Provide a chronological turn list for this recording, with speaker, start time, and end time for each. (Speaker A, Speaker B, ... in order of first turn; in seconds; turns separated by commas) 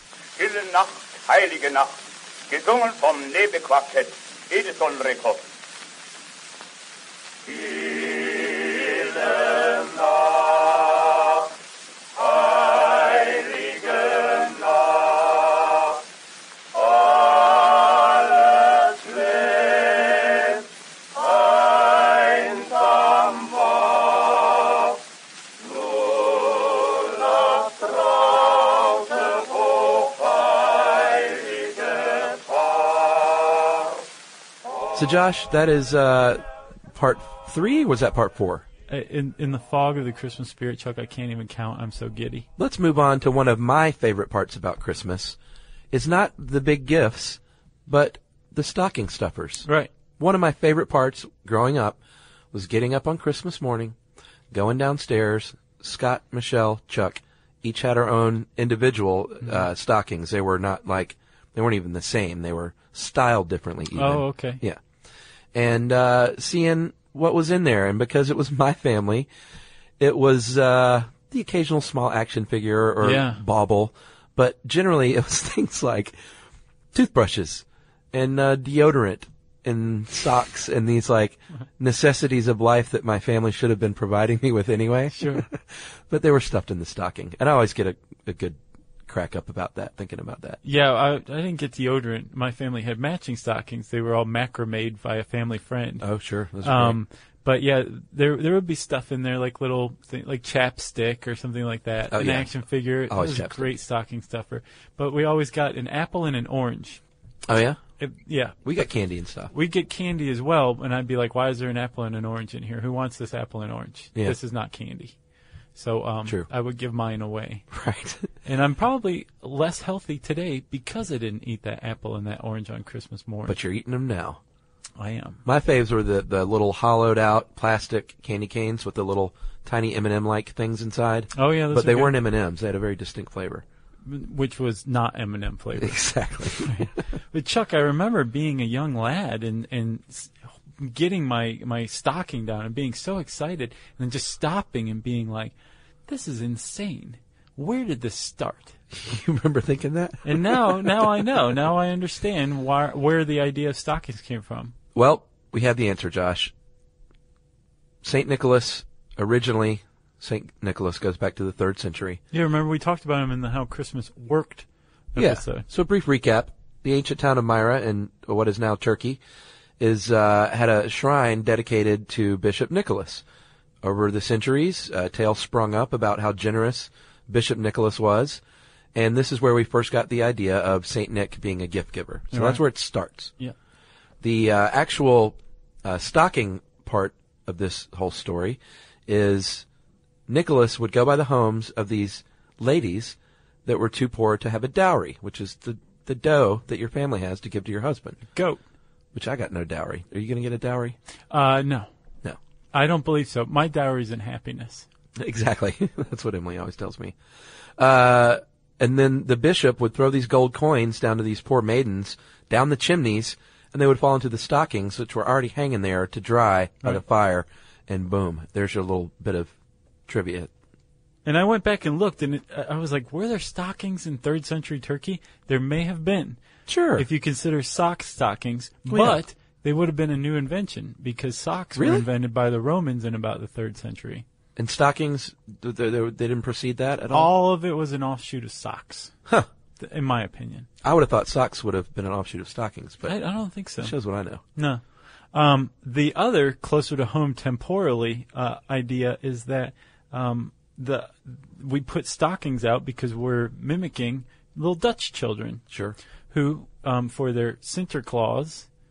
Speaker A: 0.3-5.5, Speaker B: 34.9-38.6, Speaker C: 38.9-42.5, Speaker B: 42.6-45.4, Speaker B: 45.9-52.0, Speaker B: 52.5-54.0, Speaker B: 54.5-64.8, Speaker C: 63.9-64.6, Speaker B: 65.5-69.3, Speaker B: 70.0-76.1, Speaker C: 73.0-73.4, Speaker B: 76.9-85.5, Speaker C: 85.2-85.5, Speaker B: 86.1-90.6, Speaker C: 90.6-96.0, Speaker B: 96.0-97.0, Speaker C: 96.6-107.0, Speaker B: 102.1-102.5, Speaker B: 103.1-103.7, Speaker B: 107.5-107.8, Speaker C: 108.0-108.8, Speaker B: 108.7-109.5, Speaker C: 109.5-115.1, Speaker C: 115.8-117.7, Speaker B: 117.7-118.3, Speaker C: 118.5-123.6, Speaker B: 123.5-124.4, Speaker C: 125.0-125.4, Speaker B: 125.5-133.6, Speaker C: 131.3-132.1, Speaker C: 134.1-136.0, Speaker B: 135.8-136.8, Speaker C: 136.5-145.5, Speaker C: 146.1-148.8, Speaker B: 149.0-151.1, Speaker C: 150.2-154.7, Speaker B: 154.9-156.5, Speaker B: 158.0-162.2, Speaker C: 162.3-165.7, Speaker B: 165.2-169.2, Speaker B: 169.8-173.2, Speaker B: 173.8-178.4, Speaker B: 178.9-183.3, Speaker C: 182.3-182.6, Speaker B: 184.2-189.6, Speaker B: 190.3-198.2, Speaker C: 198.3-198.6, Speaker B: 199.1-200.9, Speaker C: 201.3-201.9, Speaker C: 202.7-204.8, Speaker B: 205.2-207.1, Speaker B: 207.8-219.5, Speaker B: 220.1-220.5, Speaker C: 221.2-226.4, Speaker B: 226.7-227.1, Speaker C: 226.9-234.2, Speaker B: 228.9-229.2, Speaker B: 231.8-232.0, Speaker B: 234.6-237.3, Speaker C: 237.1-239.1, Speaker C: 239.8-240.7, Speaker B: 240.8-243.1, Speaker C: 243.1-243.9, Speaker B: 243.8-244.4, Speaker C: 244.6-244.8, Speaker C: 245.3-255.6, Speaker B: 255.7-255.9, Speaker C: 256.3-258.7